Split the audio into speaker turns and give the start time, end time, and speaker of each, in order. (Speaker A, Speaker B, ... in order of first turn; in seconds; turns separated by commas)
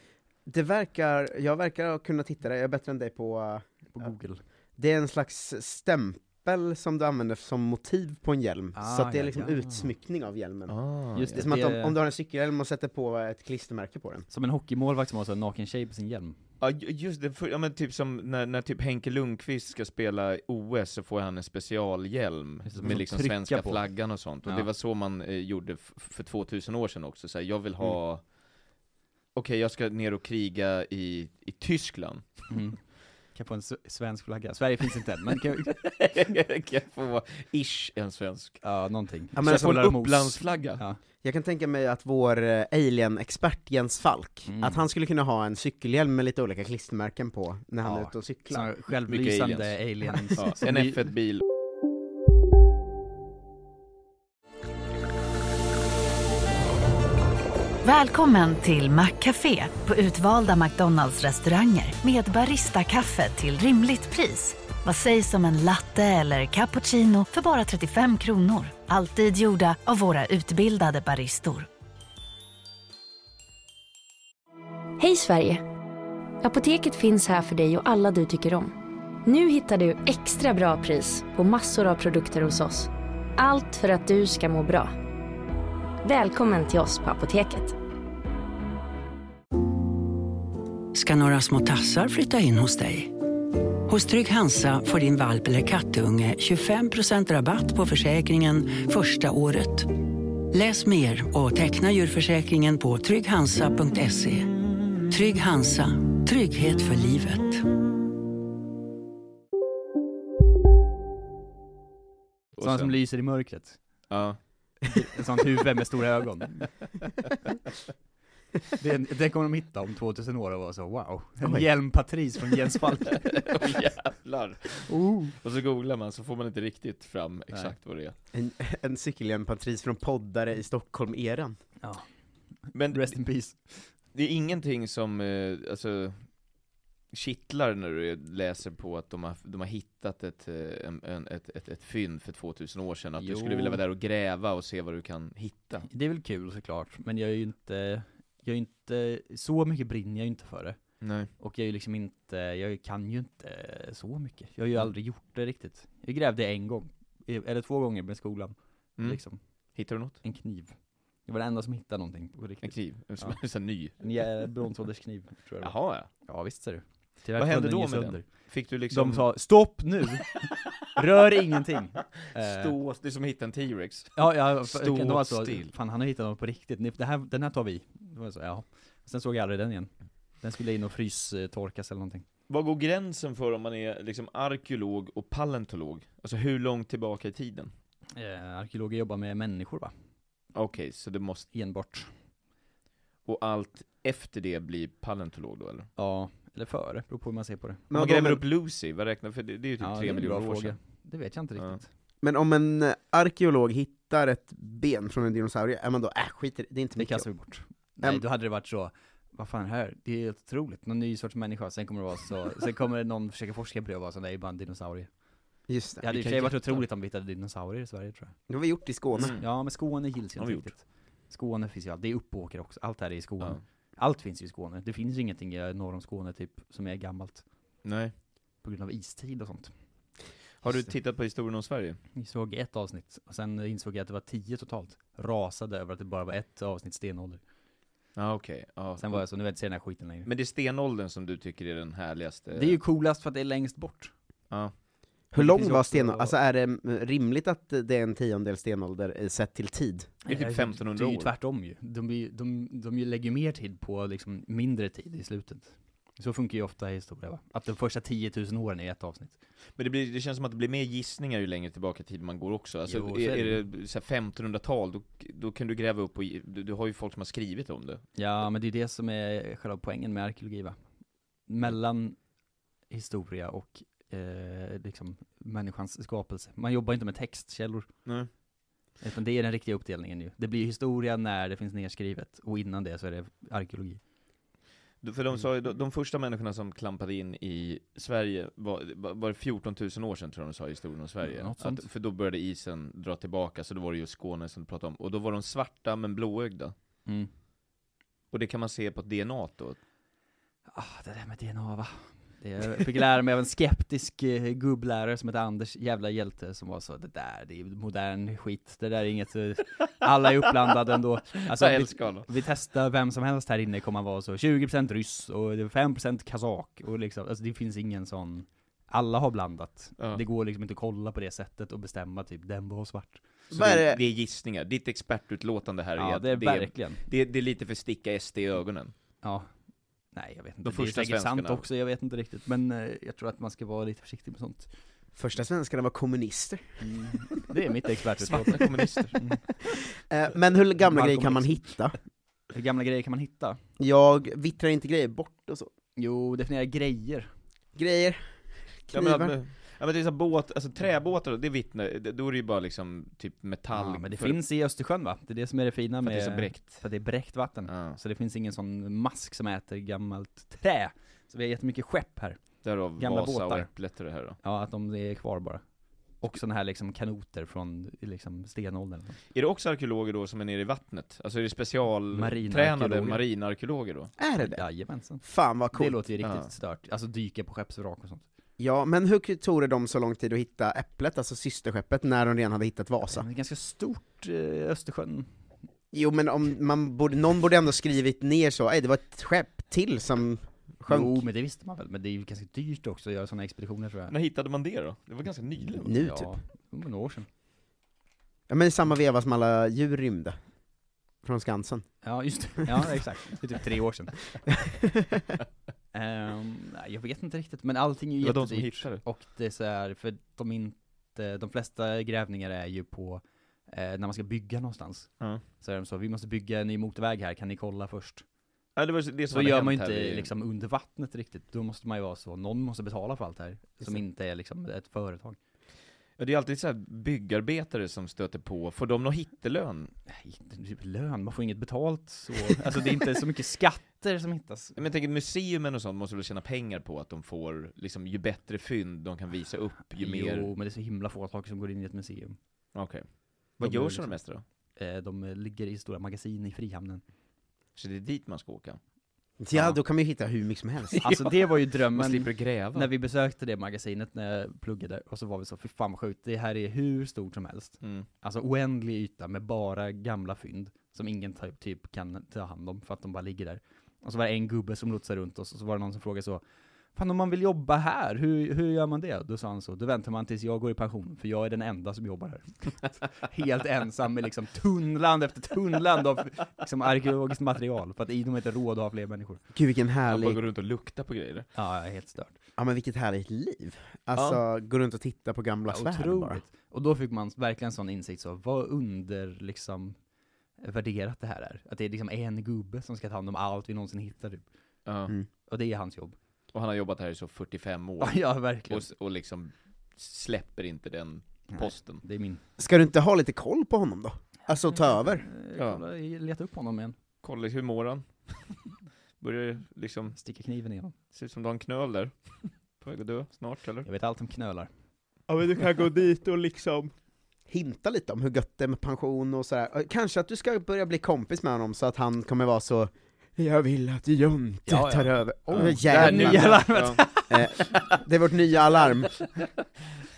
Speaker A: 0.5-4.1, Speaker B: 3.9-4.4, Speaker A: 4.8-10.8, Speaker B: 8.7-9.9, Speaker C: 10.7-11.5, Speaker B: 11.1-12.0, Speaker A: 11.3-14.3, Speaker B: 14.3-16.4, Speaker C: 16.6-28.2, Speaker B: 22.7-24.7, Speaker C: 29.4-32.4, Speaker B: 32.5-35.7, Speaker C: 35.7-38.6, Speaker B: 38.6-41.0, Speaker C: 39.3-40.8, Speaker A: 39.4-39.8, Speaker A: 41.2-48.7, Speaker B: 44.5-44.8, Speaker B: 47.8-51.1, Speaker C: 49.1-51.4, Speaker D: 57.8-71.7, Speaker E: 75.0-75.6, Speaker E: 76.4-84.9, Speaker E: 86.0-87.8, Speaker F: 90.9-93.1, Speaker F: 93.9-104.5, Speaker F: 105.1-107.7, Speaker B: 112.6-113.8, Speaker C: 112.6-113.0, Speaker C: 114.1-114.4, Speaker B: 114.9-116.9, Speaker B: 118.8-123.4, Speaker A: 121.4-121.7, Speaker C: 123.2-128.2, Speaker B: 124.9-125.3, Speaker B: 127.5-127.8, Speaker A: 128.3-131.6, Speaker B: 131.8-132.1, Speaker B: 132.7-133.9, Speaker C: 132.7-133.2, Speaker C: 134.1-136.2, Speaker C: 137.1-145.9, Speaker B: 143.2-143.8, Speaker B: 145.9-150.8, Speaker C: 151.0-151.3, Speaker B: 151.4-159.4, Speaker C: 159.8-160.2, Speaker B: 160.2-163.4, Speaker C: 162.6-164.0, Speaker B: 164.0-168.3, Speaker C: 165.6-166.1, Speaker C: 167.4-169.3, Speaker B: 168.9-172.8, Speaker C: 172.3-175.7, Speaker B: 174.2-182.3, Speaker C: 182.5-187.7, Speaker B: 188.2-189.9, Speaker C: 190.5-191.5, Speaker B: 191.5-192.1, Speaker C: 193.3-195.9, Speaker B: 196.0-197.8, Speaker A: 197.9-198.4, Speaker C: 197.9-200.8, Speaker B: 199.8-201.9, Speaker A: 202.2-207.3, Speaker B: 207.0-215.1, Speaker A: 215.7-216.0, Speaker B: 216.0-218.3, Speaker C: 216.1-216.8, Speaker A: 218.5-219.4, Speaker C: 219.2-219.4, Speaker B: 219.3-227.4, Speaker C: 220.4-220.7, Speaker C: 227.8-228.1, Speaker B: 228.6-229.7, Speaker C: 230.6-232.0, Speaker B: 232.2-237.4, Speaker C: 238.2-239.2, Speaker B: 239.0-240.3, Speaker C: 240.2-242.8, Speaker B: 242.5-244.1, Speaker A: 245.3-250.1, Speaker B: 245.3-246.4, Speaker B: 250.2-259.4, Speaker C: 250.3-251.3, Speaker C: 259.8-268.0, Speaker B: 262.9-263.7, Speaker B: 268.2-270.8, Speaker B: 271.5-272.2, Speaker B: 272.9-277.9, Speaker B: 279.0-284.0, Speaker C: 285.0-296.7, Speaker B: 291.2-291.9, Speaker C: 298.3-299.8, Speaker B: 300.7-323.2, Speaker C: 311.5-312.3, Speaker A: 323.5-324.0, Speaker C: 323.5-328.9, Speaker B: 326.0-327.0, Speaker B: 329.2-329.5, Speaker B: 330.1-334.7, Speaker C: 330.6-331.7, Speaker A: 335.2-336.6, Speaker B: 336.8-339.4, Speaker C: 338.2-339.2, Speaker A: 339.9-341.9, Speaker B: 340.8-341.8, Speaker B: 342.5-343.6, Speaker A: 343.8-345.7, Speaker B: 346.0-347.3, Speaker A: 347.8-348.2, Speaker A: 348.9-349.4, Speaker C: 348.9-354.4, Speaker B: 353.7-362.4, Speaker C: 356.1-356.8, Speaker C: 357.7-358.0, Speaker C: 362.6-364.4, Speaker B: 363.0-363.7, Speaker B: 364.4-365.6, Speaker B: 366.2-369.2, Speaker C: 369.3-374.1, Speaker B: 372.1-373.2, Speaker A: 374.2-374.7, Speaker B: 374.4-378.2, Speaker A: 375.2-376.0, Speaker C: 376.2-376.5, Speaker A: 378.6-383.3, Speaker B: 383.1-385.3, Speaker A: 385.9-391.2, Speaker B: 390.9-394.1, Speaker C: 394.1-396.1, Speaker A: 395.8-396.4, Speaker B: 396.0-397.3, Speaker A: 398.5-400.4, Speaker A: 401.2-401.9, Speaker B: 402.0-404.5, Speaker B: 405.9-418.2, Speaker C: 408.2-409.0, Speaker C: 418.8-420.3, Speaker B: 419.3-425.4, Speaker C: 426.2-429.9, Speaker B: 430.1-434.8, Speaker C: 434.8-440.5, Speaker B: 440.0-442.4, Speaker C: 442.8-444.4, Speaker B: 443.6-444.2, Speaker B: 444.8-447.0, Speaker C: 447.8-448.8, Speaker A: 449.4-451.1, Speaker C: 450.9-451.3, Speaker B: 451.0-466.4, Speaker C: 451.9-452.9, Speaker B: 466.9-479.4, Speaker A: 479.5-480.4, Speaker C: 480.1-481.5, Speaker B: 481.5-482.4, Speaker A: 482.6-486.4, Speaker C: 484.2-484.4, Speaker B: 485.7-490.0, Speaker B: 490.6-494.4, Speaker C: 494.9-495.1, Speaker B: 495.5-496.2, Speaker C: 496.5-502.0, Speaker B: 498.0-498.9, Speaker B: 501.5-502.4, Speaker A: 502.6-505.3, Speaker B: 504.7-507.0, Speaker C: 505.6-505.8, Speaker C: 507.2-508.4, Speaker C: 509.2-510.2, Speaker B: 510.1-510.9, Speaker C: 511.1-513.9, Speaker B: 513.8-514.7, Speaker A: 515.3-516.9, Speaker A: 517.5-526.6, Speaker B: 524.7-527.4, Speaker C: 525.5-527.0, Speaker A: 527.3-529.1